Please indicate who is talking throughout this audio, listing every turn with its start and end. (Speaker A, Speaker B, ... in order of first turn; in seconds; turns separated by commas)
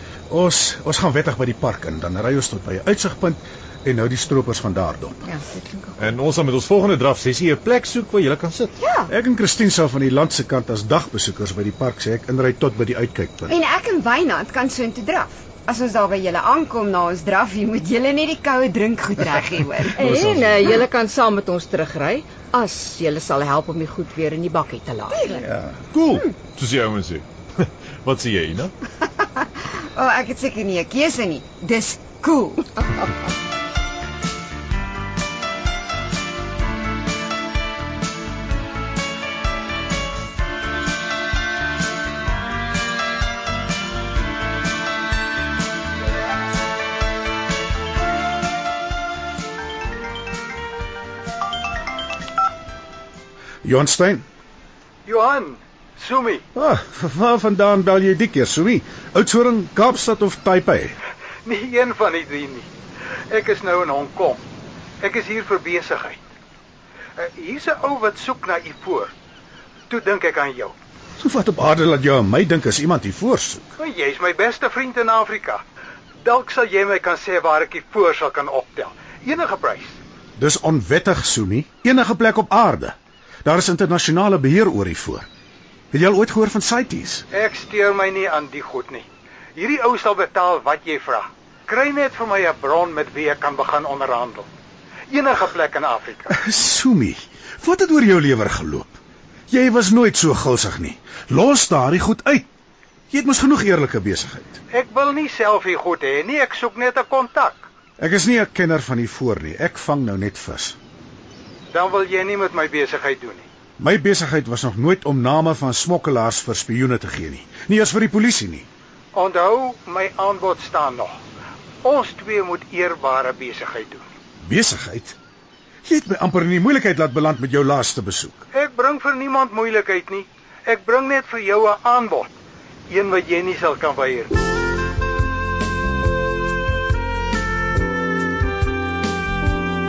Speaker A: 0.3-5.2, Speaker B: 5.2-6.2, Speaker C: 6.0-8.8, Speaker D: 8.8-9.1, Speaker A: 9.1-13.6, Speaker D: 13.5-20.1, Speaker B: 19.9-25.4, Speaker C: 20.0-20.5, Speaker D: 25.1-25.4, Speaker A: 25.4-25.8, Speaker C: 25.9-28.7, Speaker D: 29.4-33.1, Speaker A: 53.6-54.2, Speaker E: 55.0-56.4, Speaker A: 56.5-61.0, Speaker E: 61.5-62.7, Speaker E: 63.3-64.4, Speaker E: 65.0-66.2, Speaker E: 67.2-69.1, Speaker E: 69.9-70.7, Speaker A: 71.2-73.7, Speaker E: 73.8-75.6, Speaker E: 76.2-80.0, Speaker A: 80.4-85.2, Speaker A: 85.9-87.2, Speaker E: 87.3-94.5, Speaker E: 95.1-96.3, Speaker A: 96.3-99.0, Speaker A: 99.5-102.5, Speaker A: 103.1-104.6, Speaker E: 104.7-107.6, Speaker A: 108.0-110.8, Speaker E: 111.7-113.4, Speaker A: 113.8-118.7, Speaker E: 119.1-121.2, Speaker E: 121.8-124.0, Speaker A: 124.4-125.2, Speaker A: 125.8-128.4, Speaker E: 128.5-132.3, Speaker E: 132.9-134.3